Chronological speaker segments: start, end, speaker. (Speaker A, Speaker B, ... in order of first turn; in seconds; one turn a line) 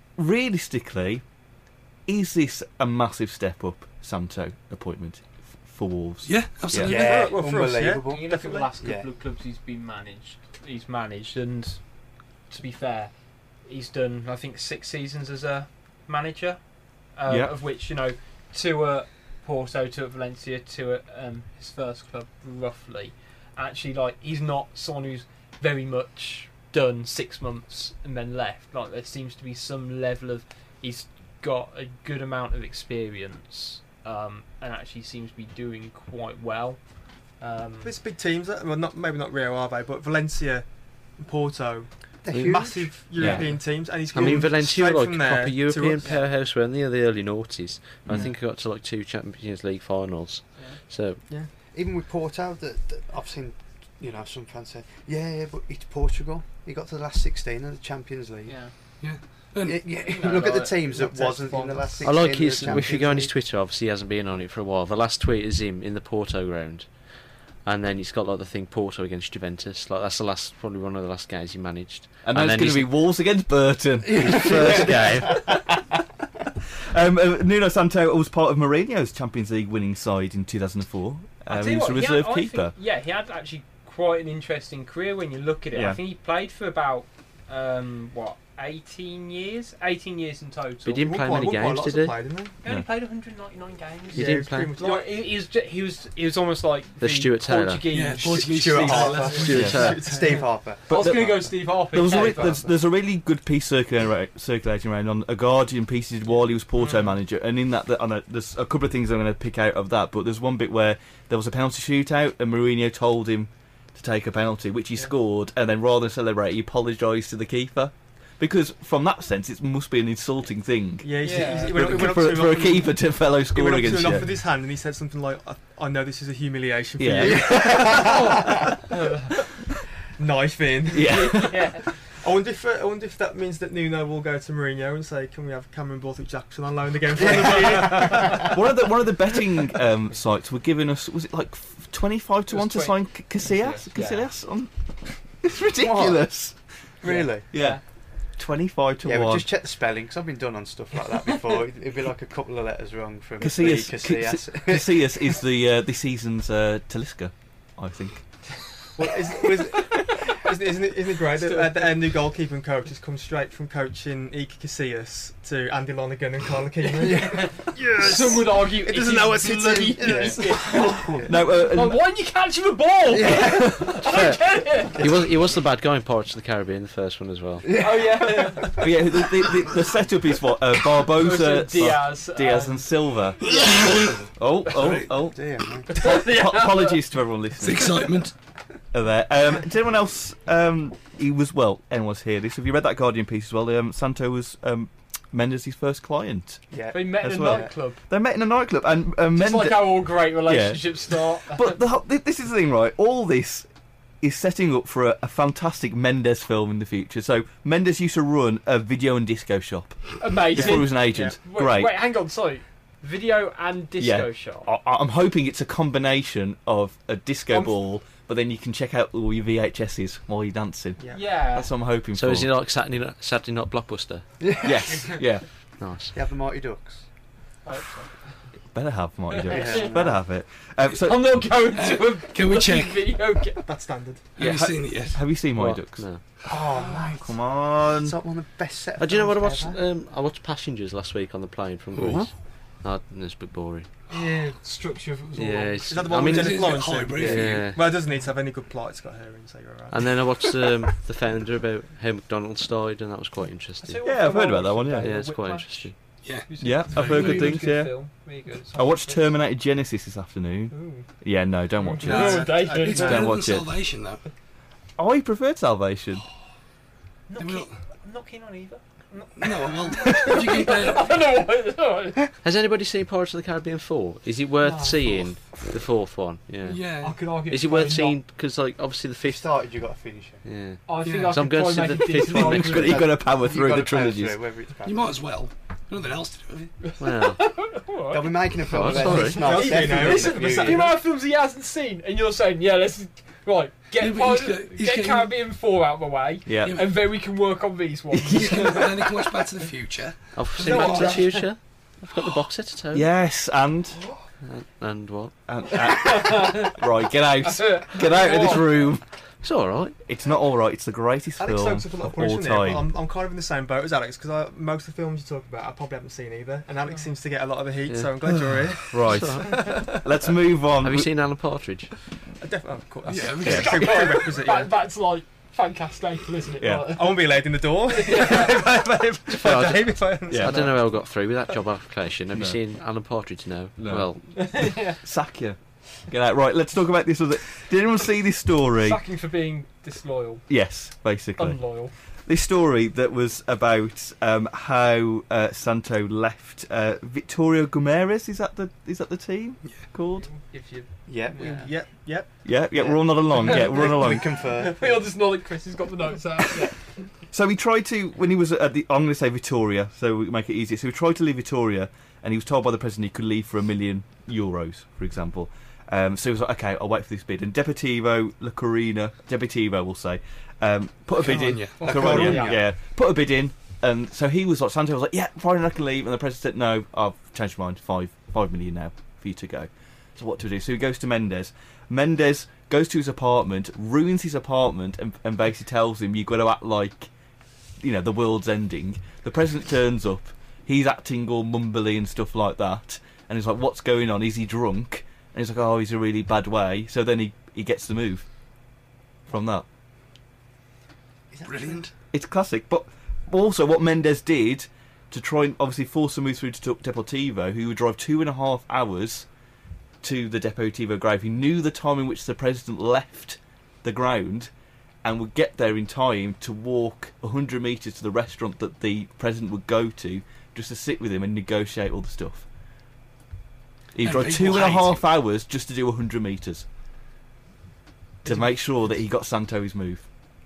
Speaker A: 0.2-1.2
Speaker A: 2.1-7.0
Speaker B: 6.2-7.3
Speaker C: 6.8-9.1
Speaker D: 6.9-8.6
Speaker E: 8.0-36.8
Speaker A: 17.3-17.6
Speaker E: 37.4-37.9
Speaker D: 37.8-46.2
Speaker C: 42.2-43.0
Speaker F: 42.3-51.2
Speaker A: 43.1-43.5
Speaker C: 51.6-58.7
Speaker E: 58.5-58.7
Speaker B: 59.0-60.1
Speaker C: 59.6-63.4
Speaker E: 60.0-60.8
Speaker D: 60.2-63.0
Speaker F: 62.0-73.0
Speaker A: 72.2-75.8
Speaker C: 74.1-75.0
Speaker F: 74.2-75.5
Speaker A: 76.9-82.8
Speaker E: 81.5-91.0
Speaker A: 85.7-86.0
Speaker F: 90.8-92.2
Speaker D: 91.0-92.6
Speaker E: 92.6-99.9
Speaker D: 94.1-95.2
Speaker F: 94.1-94.8
Speaker F: 97.0-97.9
Speaker B: 97.9-99.7
Speaker C: 98.2-101.4
Speaker D: 98.6-100.5
Speaker F: 99.5-100.2
Speaker A: 99.5-99.8
Speaker A: 100.9-124.3
Speaker E: 100.9-102.7
Speaker D: 102.2-102.5
Speaker D: 121.0-128.8
Speaker E: 121.2-122.1
Speaker A: 127.0-128.2
Speaker C: 127.3-128.3
Speaker E: 128.9-129.3
Speaker D: 130.2-131.5
Speaker A: 130.9-131.7
Speaker E: 131.1-131.8
Speaker D: 132.1-138.6
Speaker C: 137.2-138.4
Speaker A: 137.8-146.6
Speaker E: 142.5-144.3
Speaker C: 145.8-146.4
Speaker C: 147.0-147.5
Speaker E: 147.1-147.8
Speaker A: 147.5-149.5
Speaker C: 149.0-155.2
Speaker A: 153.4-158.2
Speaker D: 158.9-171.3
Speaker E: 159.7-160.0
Speaker E: 161.4-162.0
Speaker C: 167.0-167.7
Speaker E: 167.1-175.1
Speaker C: 169.4-171.3
Speaker A: 171.2-172.1
Speaker C: 173.1-174.0
Speaker F: 174.0-177.7
Speaker C: 175.0-175.3
Speaker C: 177.7-178.8
Speaker E: 177.8-178.9
Speaker A: 178.7-183.4
Speaker E: 181.0-182.9
Speaker B: 183.4-185.2
Speaker E: 183.5-183.9
Speaker A: 184.1-188.2
Speaker C: 185.3-185.9
Speaker E: 185.9-187.0
Speaker B: 187.6-188.3
Speaker A: 188.9-203.7
Speaker C: 196.7-197.7
Speaker E: 196.9-198.0
Speaker E: 199.3-201.8
Speaker A: 204.2-212.0
Speaker E: 210.2-214.7
Speaker D: 210.6-211.4
Speaker A: 214.0-222.5
Speaker D: 221.0-221.4
Speaker E: 221.1-221.7
Speaker F: 222.1-224.3
Speaker C: 224.4-225.1
Speaker A: 224.6-225.5
Speaker F: 225.8-226.2
Speaker C: 226.1-227.1
Speaker E: 227.7-228.4
Speaker A: 228.7-231.6
Speaker E: 229.3-230.0
Speaker C: 229.5-230.3
Speaker E: 231.0-233.6
Speaker B: 231.6-233.2
Speaker D: 233.6-234.3
Speaker B: 234.4-235.3
Speaker A: 234.4-236.2
Speaker F: 235.5-236.2
Speaker C: 236.5-237.3
Speaker A: 236.7-238.2
Speaker E: 236.8-237.0
Speaker C: 237.9-239.8
Speaker F: 239.0-243.9
Speaker A: 242.0-242.3
Speaker E: 244.1-245.8
Speaker F: 245.3-247.9
Speaker D: 245.9-250.2
Speaker B: 246.2-247.7
Speaker F: 249.9-254.0
Speaker E: 253.8-259.3
Speaker A: 254.0-255.2
Speaker F: 255.0-256.0
Speaker B: 256.2-257.7
Speaker A: 256.6-258.2
Speaker A: 258.7-263.8
Speaker E: 260.7-261.1
Speaker E: 261.8-263.2
Speaker D: 262.0-263.3
Speaker B: 262.8-264.2
Speaker A: 265.0-266.2
Speaker E: 267.3-272.2
Speaker B: 267.4-267.8
Speaker B: 269.4-271.2
Speaker F: 272.4-276.9
Speaker D: 274.7-275.2
Speaker B: 276.6-277.3
Speaker E: 277.0-278.2
Speaker F: 277.5-279.6
Speaker C: 279.2-280.4
Speaker F: 280.4-283.1
Speaker E: 280.9-283.0
Speaker B: 281.1-281.3
Speaker A: 282.3-284.4
Speaker C: 282.7-285.1
Speaker B: 284.8-286.8
Speaker E: 286.9-298.9
Speaker F: 287.0-287.5
Speaker C: 288.1-290.9
Speaker F: 288.7-289.5
Speaker D: 289.0-290.9
Speaker B: 294.0-295.4
Speaker A: 296.5-296.8
Speaker B: 296.6-296.9
Speaker A: 298.1-298.9
Speaker B: 298.3-301.2
Speaker F: 300.4-303.1
Speaker E: 300.6-301.5
Speaker D: 300.9-301.1
Speaker A: 302.9-304.0
Speaker F: 304.4-305.4
Speaker A: 305.5-309.0
Speaker E: 305.8-306.8
Speaker E: 307.4-308.8
Speaker F: 308.3-310.0
Speaker A: 310.1-312.9
Speaker D: 311.4-320.0
Speaker F: 317.9-320.0
Speaker A: 318.3-321.1
Speaker F: 320.8-321.9
Speaker D: 322.4-324.8
Speaker B: 323.1-324.1
Speaker A: 323.4-323.8
Speaker E: 323.4-328.7
Speaker A: 326.6-327.3
Speaker D: 326.9-331.0
Speaker F: 329.3-334.4
Speaker A: 330.3-330.7
Speaker A: 332.3-332.6
Speaker A: 333.8-339.0
Speaker E: 334.4-335.0
Speaker E: 338.8-340.5
Speaker A: 340.5-350.3
Speaker E: 341.4-341.9
Speaker B: 349.6-349.9
Speaker E: 350.2-351.7
Speaker C: 351.1-351.8
Speaker D: 351.4-352.5
Speaker A: 352.4-354.5
Speaker C: 352.7-355.1
Speaker E: 353.4-357.0
Speaker A: 357.3-387.1
Speaker D: 371.2-372.6
Speaker B: 371.3-371.9
Speaker C: 371.9-372.6
Speaker A: 387.8-398.3
Speaker A: 399.3-399.7
Speaker C: 401.3-401.8
Speaker B: 401.4-401.9
Speaker A: 402.1-409.3
Speaker A: 410.0-414.5
Speaker A: 415.0-422.5
Speaker A: 423.9-426.7
Speaker B: 424.0-425.1
Speaker A: 428.2-430.1
Speaker D: 428.3-428.5